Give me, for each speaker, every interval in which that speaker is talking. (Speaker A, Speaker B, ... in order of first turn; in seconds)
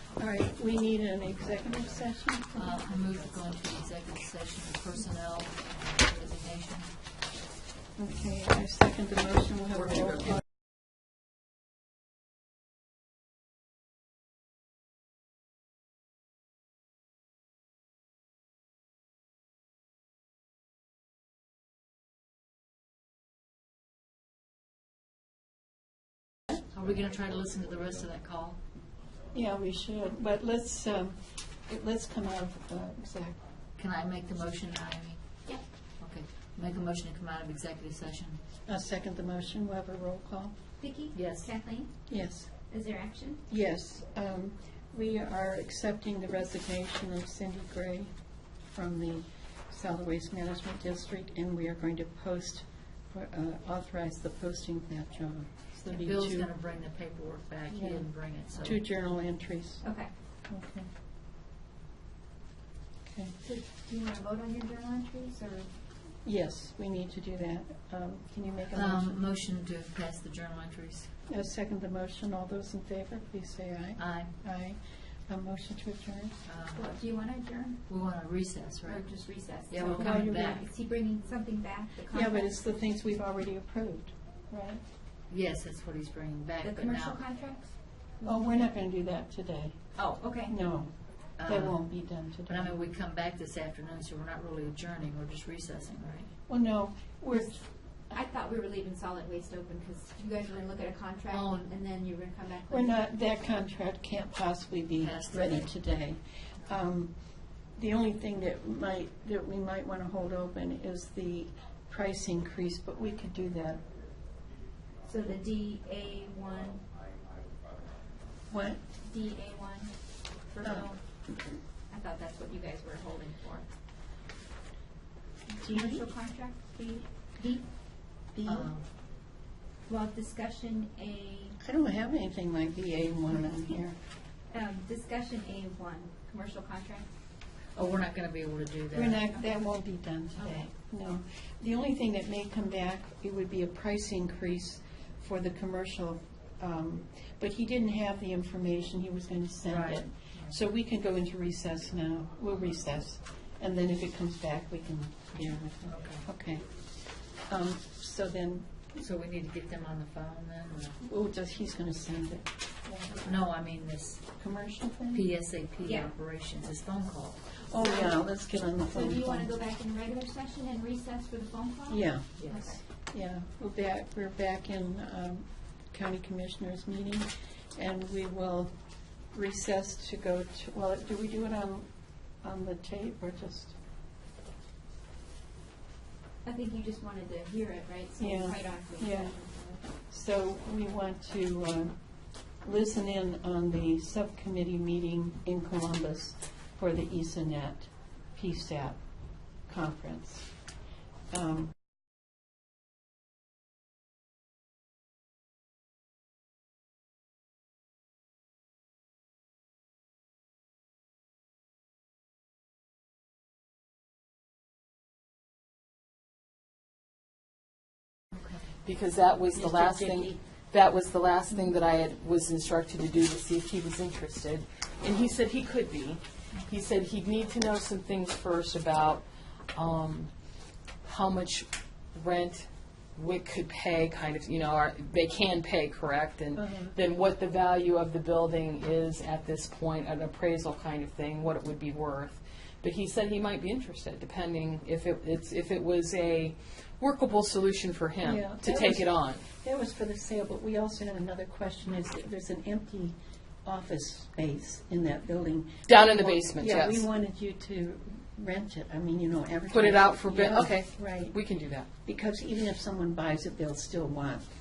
Speaker A: 0.2-2.8, 8.0-10.4, 29.3-33.4, 38.7-40.5, 42.1-42.5, 43.5-48.1, 48.7-56.5, 57.7-59.9, 60.5-60.9, 63.1-63.3, 66.2-69.3, 71.3-76.4, 79.8-80.6, 82.1-84.8, 88.2-89.8, 90.3-92.8, 96.5-97.6, 102.7-107.1, 107.7-113.8, 118.5-118.8, 120.6-120.9, 125.7-126.0, 128.3-128.7, 131.6-134.0, 138.9-156.8, 157.4-158.8, 161.0-163.2, 164.4-165.2, 167.6-169.5, 171.9-178.7, 179.3-181.9, 182.4-183.8, 188.2-189.4, 190.1-191.9, 192.6-199.0, 199.7-200.5, 201.3-201.7, 219.6-220.3, 236.6-237.0, 248.2-261.4, 262.1-264.5
Speaker B: 1.2-7.0, 26.6-28.6, 33.8-38.4, 41.1-41.5, 55.9-58.9, 68.7-71.1, 74.0-74.3, 76.5-76.9, 77.9-80.7, 85.3-87.2, 91.4-96.3, 101.3-101.7, 105.0-105.7, 128.4-128.9, 137.8-139.2, 149.7-150.6, 155.9-156.3, 158.9-161.0, 163.2-164.2, 165.1-167.5
Speaker C: 9.9-10.4, 218.8-229.2, 229.8-230.3, 231.1-249.4, 255.9-257.1, 259.7-261.9
Speaker D: 40.8-42.0, 42.6-43.4, 59.8-60.1, 63.4-65.7, 76.7-77.8, 78.8-82.5, 86.6-88.7, 90.0-90.7, 97.3-103.0, 115.0-116.8, 119.0-121.0, 121.9-123.7, 125.5-127.8, 129.9-131.6, 134.5-137.1, 140.4-140.7, 165.8-166.2, 167.8-168.2, 168.8-172.8, 186.4-189.8, 219.6-220.3